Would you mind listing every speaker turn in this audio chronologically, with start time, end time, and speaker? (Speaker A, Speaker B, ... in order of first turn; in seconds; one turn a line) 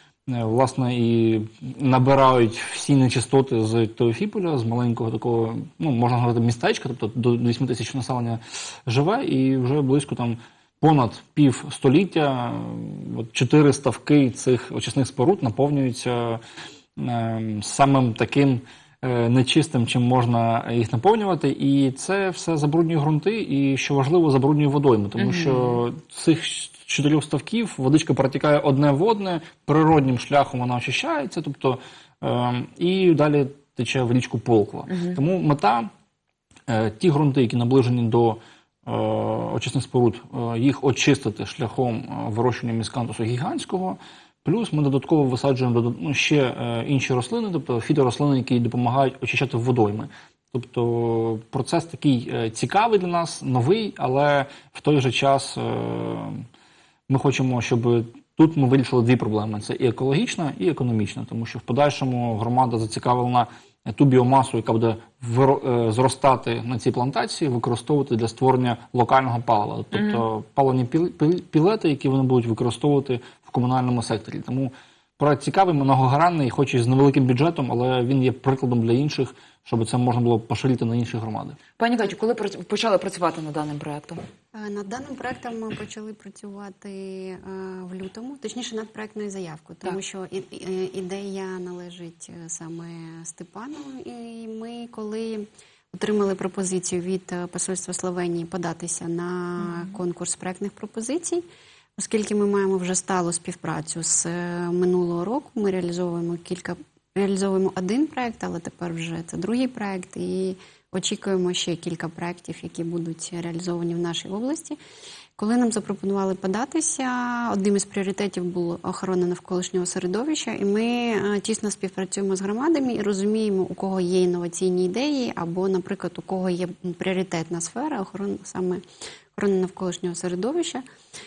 Speaker A: 0.3-16.4
Speaker A: 16.9-35.9
Speaker B: 25.2-25.8
Speaker B: 34.9-35.2
Speaker A: 36.7-56.5
Speaker A: 57.1-81.6
Speaker B: 69.9-70.2
Speaker B: 81.8-84.2
Speaker C: 84.5-101.4
Speaker B: 99.6-100.0
Speaker C: 102.0-114.8
Speaker C: 115.4-128.8
Speaker C: 129.3-130.8